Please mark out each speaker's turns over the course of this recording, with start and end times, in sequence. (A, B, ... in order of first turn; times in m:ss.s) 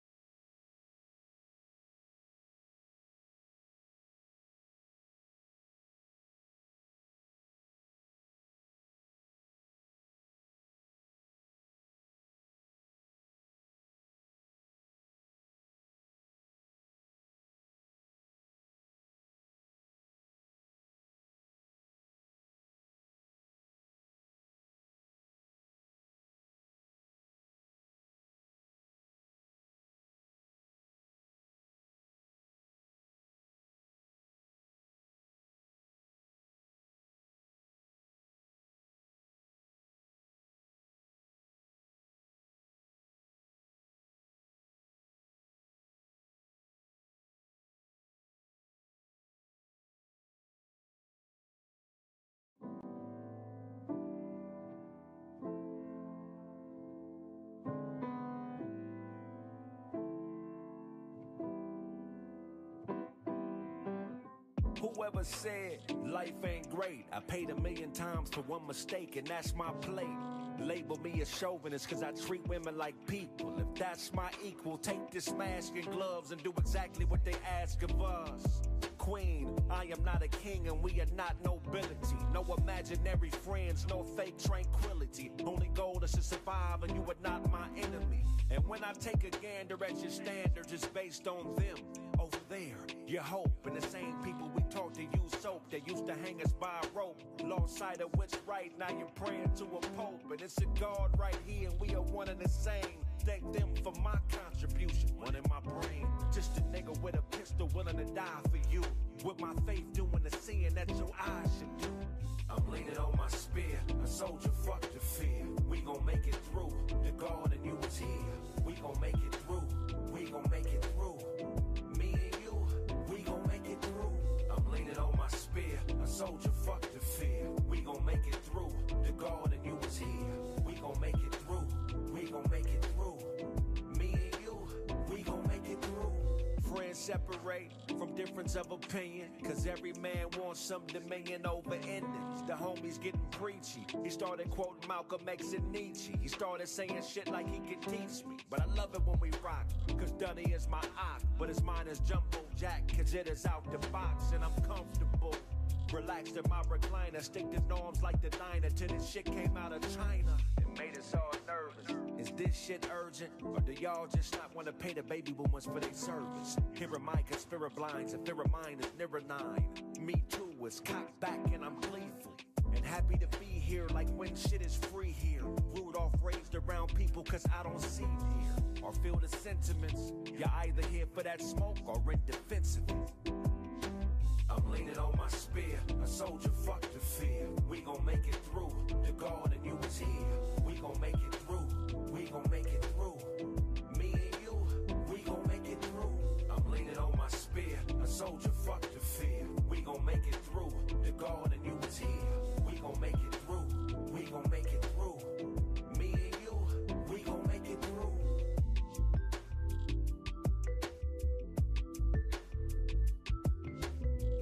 1:04.8-2:01.3 A
2:01.9-2:13.3 A
2:13.9-3:03.0 A
3:04.5-3:13.3 A
3:13.9-3:25.3 A
3:25.9-3:28.3 A